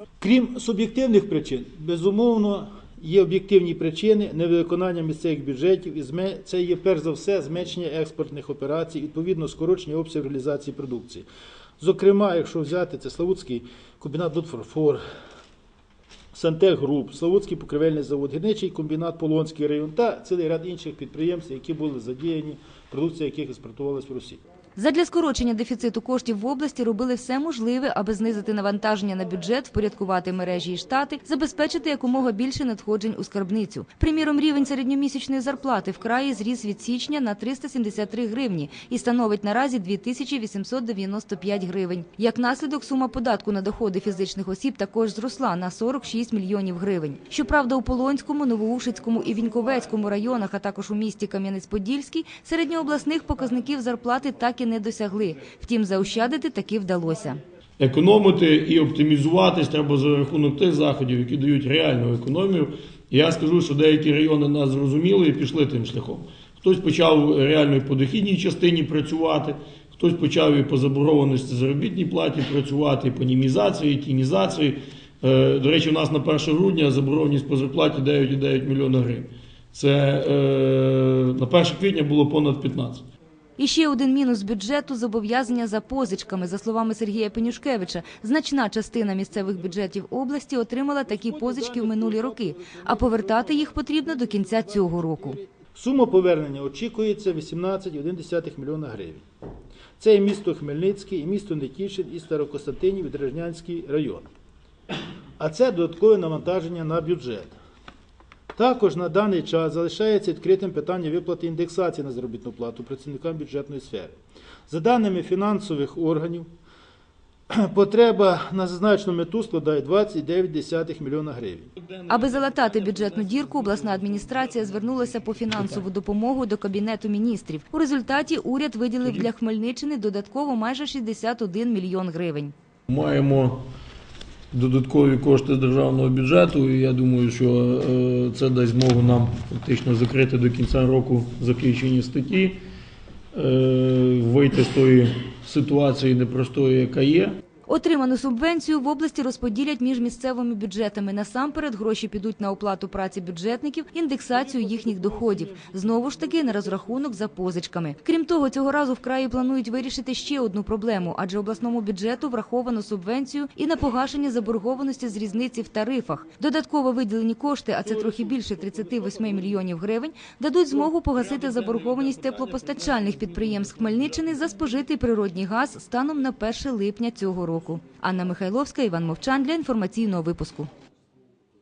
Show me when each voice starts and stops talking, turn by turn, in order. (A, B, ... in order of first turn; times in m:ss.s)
0:00.2-0:11.3 A
0:11.8-0:15.0 A
0:16.3-0:24.4 A
0:24.8-0:57.4 B
0:57.8-1:23.0 C
1:23.6-1:35.4 B
1:31.1-1:39.2 A
1:40.0-1:44.3 A
1:45.4-1:47.5 A
1:48.5-1:54.1 A
1:54.7-1:56.5 A
1:57.5-2:01.7 A
2:01.8-2:05.8 C
2:02.1-2:12.5 B
2:12.9-2:13.6 C
2:14.5-2:22.6 C
2:23.3-2:27.4 C
2:27.7-3:00.7 B
2:34.3-2:37.3 A
2:47.8-2:49.6 A
2:51.3-2:53.3 C